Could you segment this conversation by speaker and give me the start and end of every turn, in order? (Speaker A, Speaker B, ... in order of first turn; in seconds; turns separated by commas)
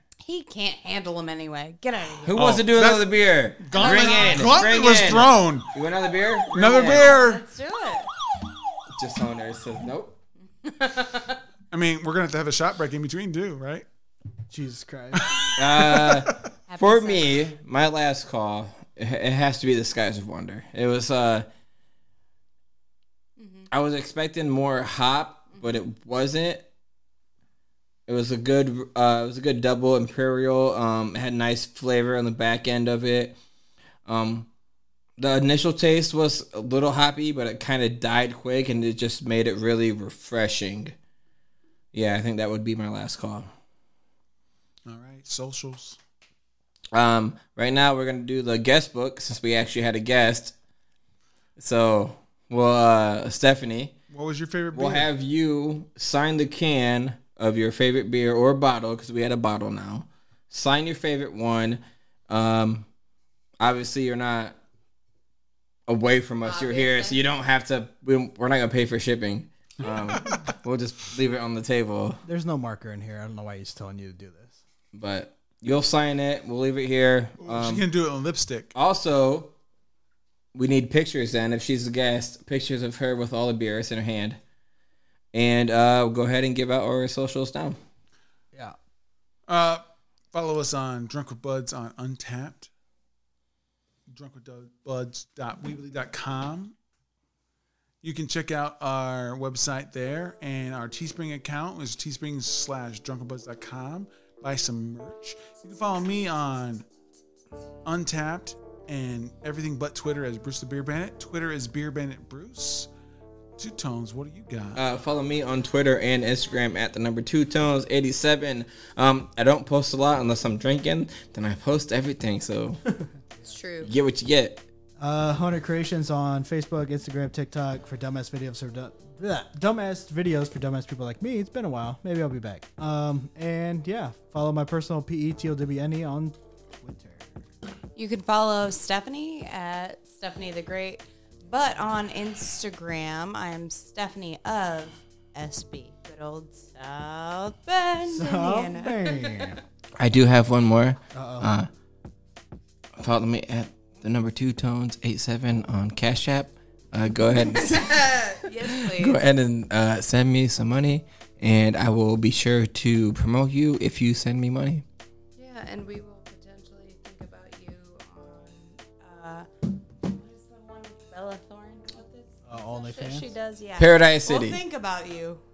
Speaker A: 0.2-2.5, Speaker B: 2.2-7.2, Speaker C: 2.3-5.7, Speaker A: 3.7-4.6, Speaker C: 6.5-7.4, Speaker A: 6.7-8.1, Speaker B: 8.9-10.2, Speaker A: 10.6-11.4, Speaker C: 11.7-13.8, Speaker D: 14.5-15.2, Speaker C: 15.1-16.4, Speaker B: 15.6-21.5, Speaker A: 16.7-17.3, Speaker A: 23.4-23.7, Speaker B: 23.7-26.6, Speaker B: 28.1-33.4, Speaker B: 34.0-34.5, Speaker B: 35.2-40.9, Speaker B: 41.9-43.5, Speaker C: 44.9-46.0, Speaker B: 46.9-50.5, Speaker B: 51.6-54.0, Speaker C: 54.1-55.1, Speaker B: 54.7-62.9, Speaker B: 63.6-64.5, Speaker B: 65.9-72.2, Speaker A: 66.4-67.2, Speaker D: 72.2-74.6, Speaker B: 74.9-77.8, Speaker C: 77.4-78.7, Speaker B: 78.7-79.5, Speaker B: 80.5-84.4, Speaker B: 85.3-87.8, Speaker C: 89.5-92.7, Speaker C: 94.1-96.7, Speaker C: 98.0-106.8, Speaker C: 107.8-112.9, Speaker C: 113.6-114.8, Speaker B: 114.7-122.8, Speaker D: 122.9-123.4, Speaker A: 123.4-123.9, Speaker B: 123.8-124.7, Speaker D: 125.0-137.4, Speaker A: 137.9-149.6, Speaker D: 148.1-149.6, Speaker B: 150.0-151.7, Speaker D: 151.1-151.5, Speaker B: 153.0-158.1, Speaker A: 157.5-159.2, Speaker B: 158.6-164.8, Speaker A: 165.4-169.5, Speaker A: 170.0-175.4, Speaker D: 172.5-173.3, Speaker B: 173.8-174.6